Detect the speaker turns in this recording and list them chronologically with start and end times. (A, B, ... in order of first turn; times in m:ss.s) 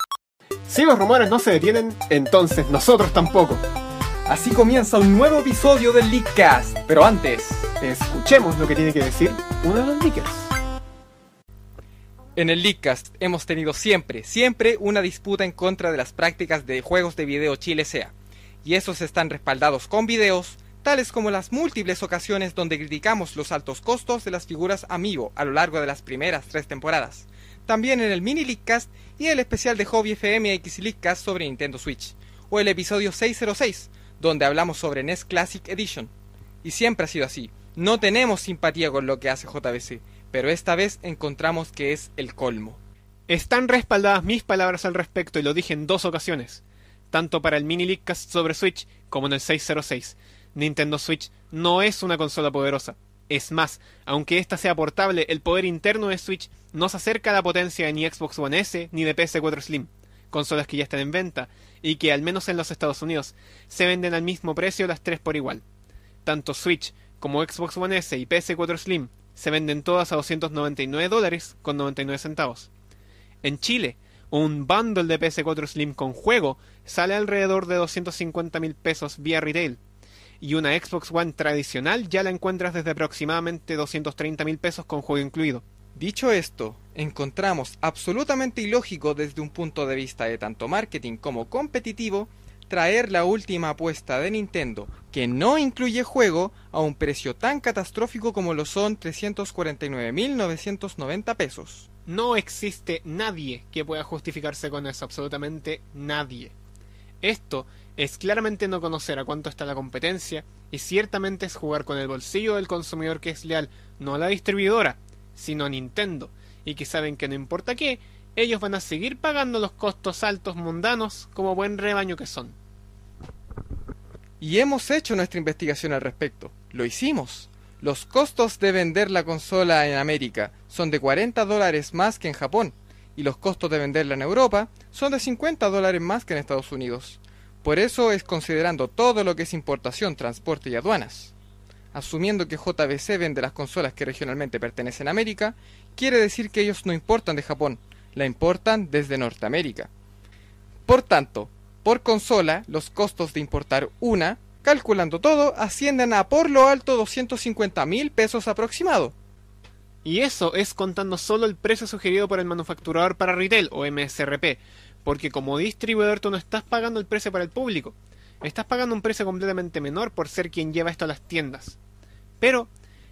0:00.7-0:03.6 A
0:04.2-0:08.0 B
0:08.0-0:10.5 A
0:12.4-0:36.1 B
0:36.6-0:42.8 B
0:43.3-1:05.6 A
1:06.2-1:12.7 A
1:13.4-1:19.8 A
1:20.4-1:25.6 A
1:26.0-1:41.9 B
1:42.1-1:46.5 A
1:47.2-2:02.6 A
2:04.4-2:21.3 B
2:21.9-2:29.9 B
2:30.8-2:39.1 B
2:40.0-2:51.8 A
2:52.4-2:52.7 A